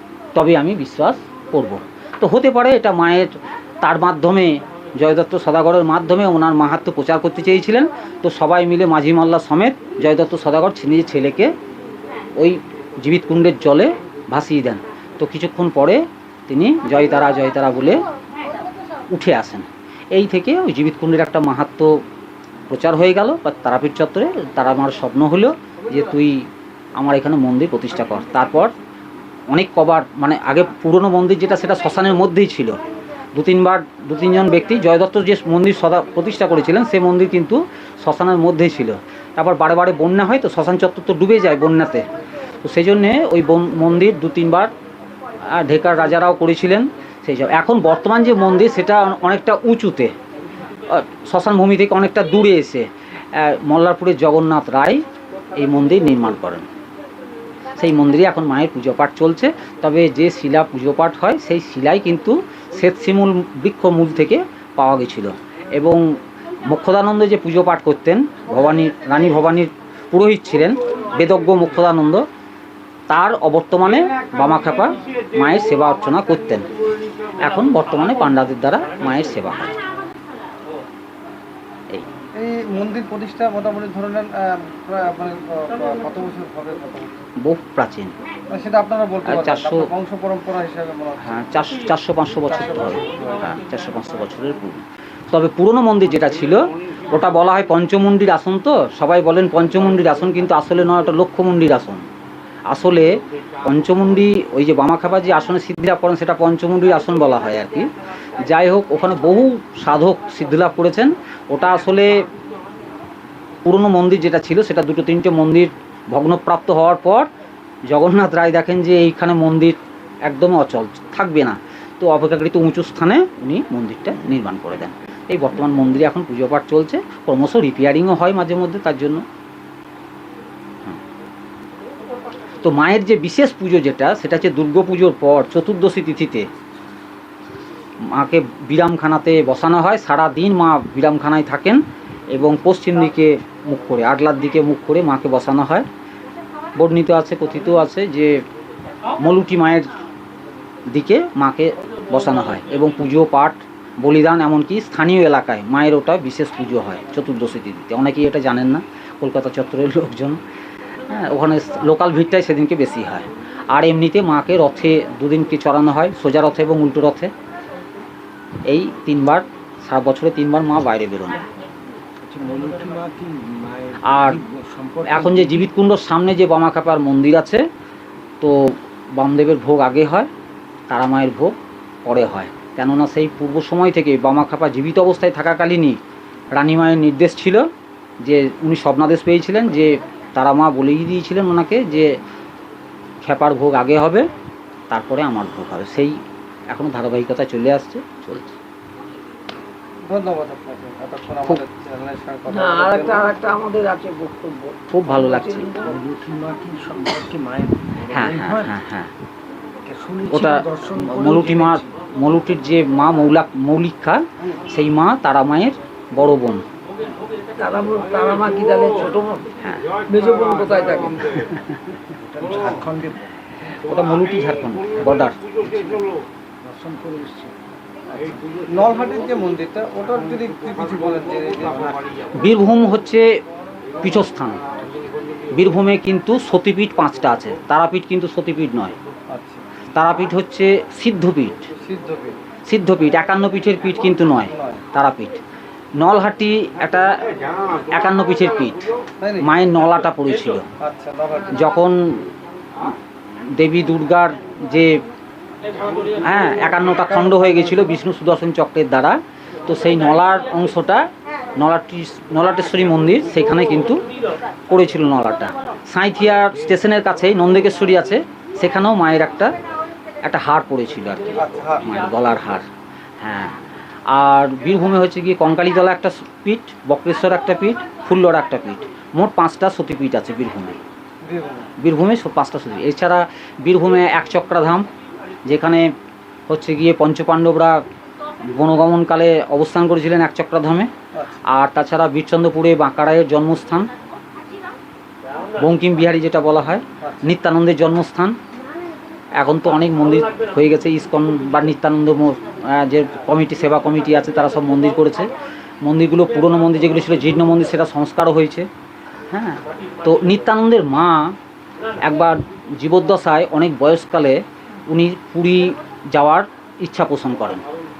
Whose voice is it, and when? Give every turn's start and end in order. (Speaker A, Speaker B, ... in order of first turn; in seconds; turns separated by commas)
Speaker A: 0.3-11.5, Speaker A: 12.4-18.1, Speaker A: 19.1-22.0, Speaker A: 22.7-26.4, Speaker A: 27.0-28.7, Speaker A: 29.5-32.8, Speaker A: 33.3-42.1, Speaker A: 42.6-44.7, Speaker A: 45.5-50.1, Speaker A: 50.9-56.7, Speaker A: 57.8-66.1, Speaker A: 66.6-72.2, Speaker A: 73.1-76.7, Speaker A: 77.4-79.7, Speaker B: 82.3-87.2, Speaker A: 87.4-88.1, Speaker B: 88.5-91.5, Speaker A: 89.3-89.9, Speaker A: 91.2-102.0, Speaker B: 92.5-93.5, Speaker A: 102.7-107.9, Speaker A: 108.4-112.2, Speaker A: 113.6-117.3, Speaker A: 117.9-129.2, Speaker A: 132.6-136.5, Speaker A: 138.1-141.8, Speaker A: 142.3-145.9, Speaker A: 146.8-148.4, Speaker A: 149.2-149.9, Speaker A: 150.9-160.4, Speaker A: 161.1-167.3, Speaker A: 168.7-171.4, Speaker C: 172.2-175.7, Speaker A: 174.1-174.4, Speaker A: 175.1-177.7, Speaker A: 178.4-180.3, Speaker A: 180.9-186.0, Speaker A: 186.5-187.7, Speaker A: 188.2-192.1, Speaker A: 193.2-194.3, Speaker A: 194.9-196.2, Speaker A: 196.7-198.6, Speaker B: 200.1-203.3, Speaker C: 202.5-208.8, Speaker A: 204.9-205.7, Speaker A: 208.1-209.1, Speaker C: 209.8-211.9, Speaker A: 210.3-216.6, Speaker C: 217.6-219.4, Speaker C: 220.1-221.2, Speaker A: 221.5-221.8, Speaker C: 222.2-223.5, Speaker A: 223.9-225.4, Speaker C: 225.6-226.1, Speaker C: 226.6-227.5, Speaker B: 228.2-232.0, Speaker A: 232.4-233.3, Speaker A: 234.0-234.6, Speaker A: 235.5-238.9, Speaker B: 239.3-239.6, Speaker A: 239.9-241.7, Speaker B: 241.8-242.3, Speaker A: 242.7-245.4, Speaker B: 244.4-244.8, Speaker A: 246.0-247.1, Speaker A: 247.9-248.9, Speaker B: 249.2-249.5, Speaker A: 249.4-250.6, Speaker B: 250.8-251.6, Speaker A: 251.5-252.2, Speaker A: 253.5-255.0, Speaker A: 256.2-264.0, Speaker B: 257.1-257.8, Speaker A: 264.7-269.5, Speaker A: 270.2-272.7, Speaker B: 271.4-271.9, Speaker A: 273.2-280.8, Speaker B: 281.2-281.7, Speaker A: 281.8-284.9, Speaker A: 285.4-285.9, Speaker A: 286.5-287.8, Speaker A: 288.5-290.9, Speaker B: 291.1-291.4, Speaker A: 291.4-293.9, Speaker A: 295.6-298.4, Speaker B: 297.0-297.3, Speaker A: 299.4-305.3, Speaker A: 305.8-308.7, Speaker A: 309.3-311.4, Speaker A: 312.0-317.6